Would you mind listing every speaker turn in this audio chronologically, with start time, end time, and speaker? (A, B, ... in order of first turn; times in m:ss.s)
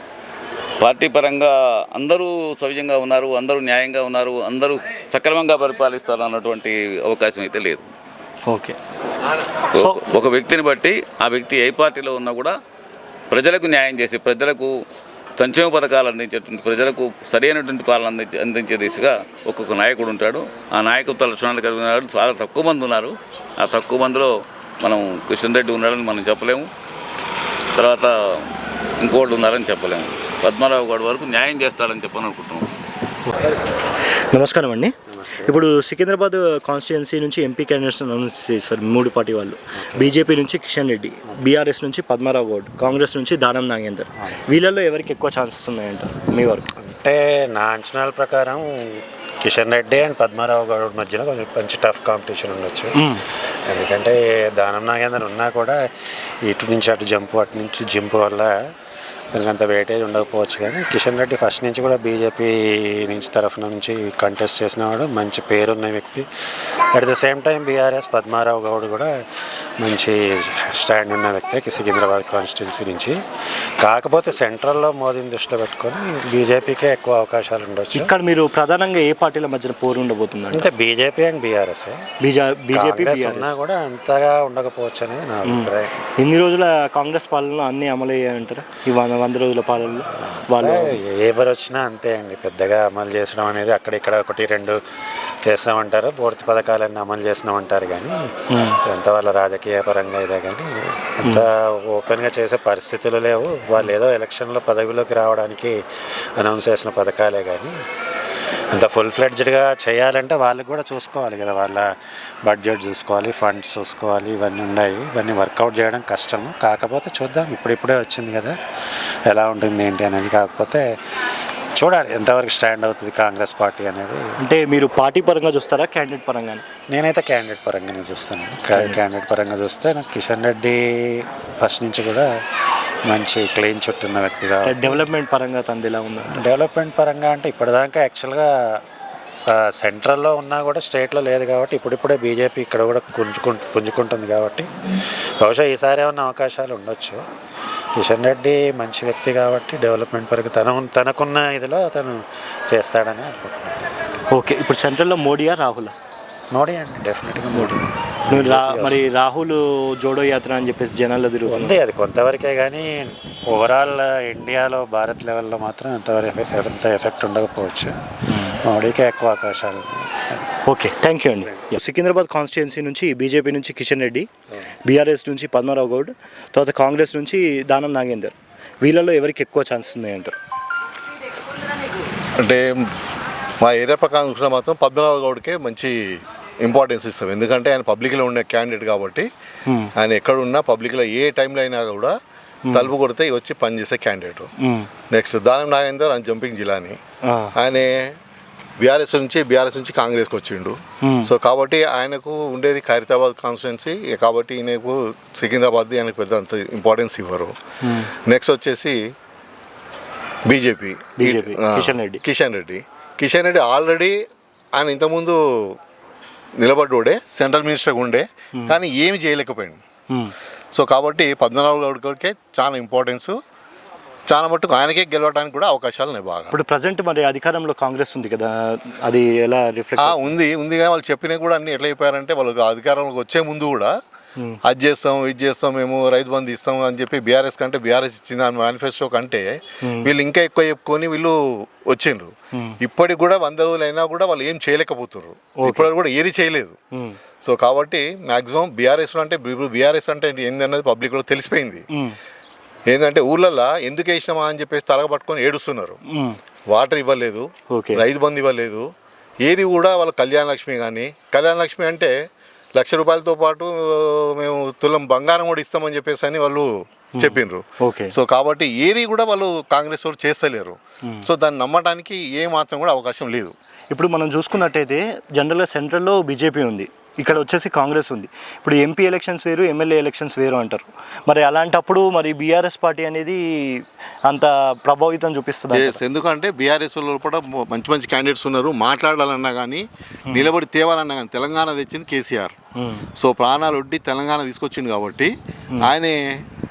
0:00.8-0:07.9 A
0:08.5-0:08.8 B
0:09.7-0:12.5 A
0:13.3-0:14.7 A
0:15.4-0:26.7 A
0:27.8-0:28.1 A
0:29.0-0:32.7 A
0:34.3-0:46.7 B
0:47.0-0:52.9 C
0:53.7-0:55.8 C
0:56.5-0:58.5 C
0:59.4-1:06.2 C
1:07.0-1:09.1 C
1:09.8-1:10.2 C
1:10.7-1:13.2 C
1:13.8-1:18.0 C
1:17.9-1:20.7 B
1:20.9-1:22.0 C
1:22.2-1:23.6 B
1:22.7-1:25.9 C
1:25.4-1:31.0 B
1:30.6-1:34.7 C
1:35.4-1:38.1 C
1:38.5-1:38.8 B
1:38.9-1:40.7 C
1:41.2-1:45.8 C
1:46.4-1:47.7 C
1:48.7-1:51.8 C
1:52.4-1:58.5 C
1:59.3-2:00.8 C
2:01.8-2:04.2 C
2:04.4-2:06.6 B
2:06.9-2:10.9 C
2:08.7-2:09.0 B
2:11.6-2:12.3 C
2:13.1-2:14.7 C
2:14.6-2:16.4 B
2:16.3-2:18.5 C
2:19.8-2:24.6 C
2:25.4-2:27.2 C
2:28.0-2:32.2 C
2:32.7-2:33.4 C
2:33.4-2:34.2 D
2:34.3-2:35.9 B
2:36.5-2:37.7 C
2:37.9-2:38.9 D
2:38.3-2:41.8 B
2:38.4-2:38.9 C
2:41.5-2:43.0 C
2:43.6-2:47.3 D
2:43.6-2:47.9 C
2:48.3-2:48.6 B
2:48.7-2:50.5 D
2:49.1-2:49.9 C
2:50.6-2:54.3 B
2:54.8-3:00.3 B
3:02.4-3:02.7 D
3:03.6-3:06.0 D
3:06.6-3:09.3 D
3:10.0-3:12.1 D
3:12.7-3:14.5 D
3:14.6-3:14.9 B
3:15.1-3:17.0 D
3:17.2-3:17.5 B
3:17.6-3:18.2 D
3:18.8-3:27.5 D
3:21.0-3:21.3 B
3:27.8-3:28.1 B
3:28.2-3:29.0 D
3:30.5-3:34.2 D
3:31.2-3:32.2 B
3:34.8-3:35.4 D
3:36.6-3:39.8 D
3:40.7-3:43.4 D
3:44.3-3:46.5 D
3:46.5-3:50.3 B
3:50.0-3:53.9 D
3:54.6-4:01.4 D
3:59.8-4:00.1 B
4:01.9-4:06.8 D
4:05.6-4:05.9 B
4:07.4-4:11.8 D
4:12.9-4:16.0 D
4:16.1-4:16.4 B
4:16.7-4:18.9 D
4:17.7-4:18.0 B
4:19.4-4:22.1 D
4:22.8-4:33.5 D
4:27.2-4:28.1 B
4:33.9-4:46.0 B
4:45.7-4:52.5 D
4:52.8-4:53.0 B
4:53.2-4:56.4 D